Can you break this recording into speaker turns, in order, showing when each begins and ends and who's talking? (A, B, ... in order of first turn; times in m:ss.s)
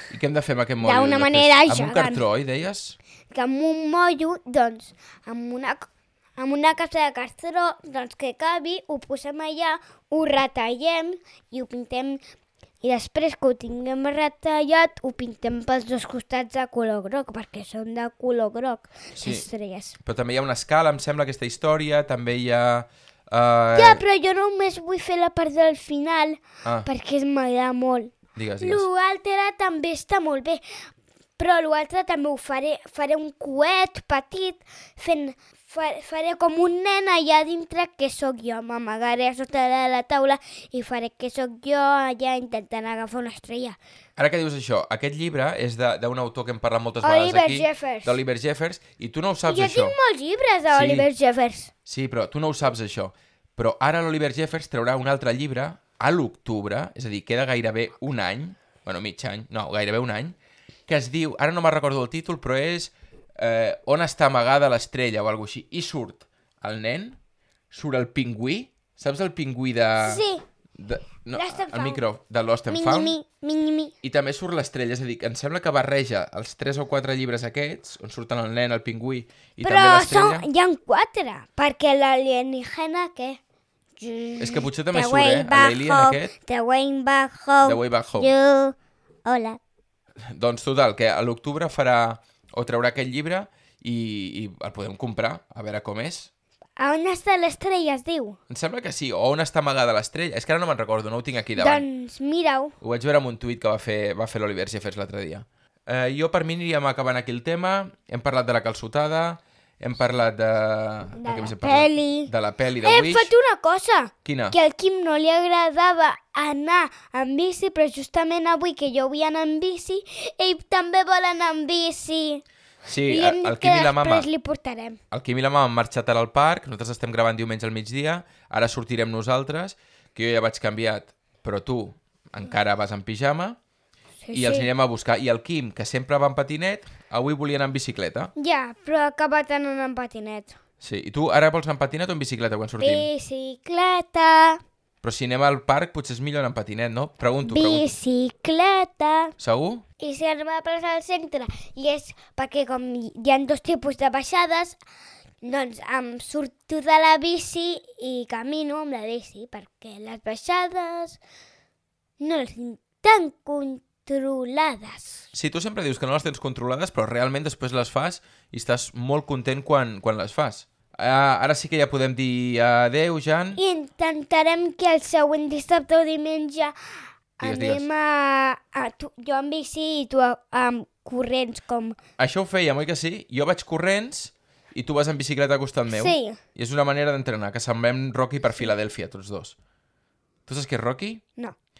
0:00.1-0:03.0 A
0:00.8-0:02.2 B
0:03.3-0:12.2 B
0:12.8-0:20.0 B
0:19.2-0:19.5 A
0:20.0-0:24.0 A
0:23.8-0:30.6 B
0:28.4-0:28.9 A
0:31.4-0:43.8 B
0:44.2-0:50.0 A
0:47.0-0:48.2 B
0:49.5-0:51.7 B
0:50.7-0:51.1 A
0:51.9-1:00.4 A
1:00.9-1:07.2 A
1:07.7-1:10.2 A
1:10.0-1:10.4 B
1:10.8-1:13.2 A
1:11.3-1:12.0 B
1:12.7-1:13.9 B
1:14.0-1:20.5 A
1:19.6-1:23.4 B
1:24.0-1:29.6 B
1:24.4-1:26.3 A
1:27.6-1:28.3 A
1:30.2-1:36.3 A
1:36.8-1:38.4 B
1:38.5-1:41.8 A
1:41.6-1:42.8 B
1:42.8-1:53.3 A
1:51.2-2:02.4 B
1:54.2-1:54.6 A
2:02.9-2:04.3 A
2:03.0-2:05.0 B
2:05.1-2:13.6 A
2:14.2-2:14.7 B
2:14.3-2:18.3 A
2:18.4-2:20.6 B
2:20.8-2:23.1 A
2:22.8-2:24.6 B
2:25.0-2:27.9 A
2:27.4-2:29.3 B
2:29.4-2:29.8 A
2:30.0-2:34.8 B
2:35.4-2:41.2 B
2:42.2-2:45.3 B
2:45.3-2:53.6 A
2:53.6-2:56.8 B
2:57.4-3:02.0 B
2:57.4-2:57.9 A
3:02.2-3:09.6 A
3:05.9-3:06.4 B
3:10.5-3:11.2 A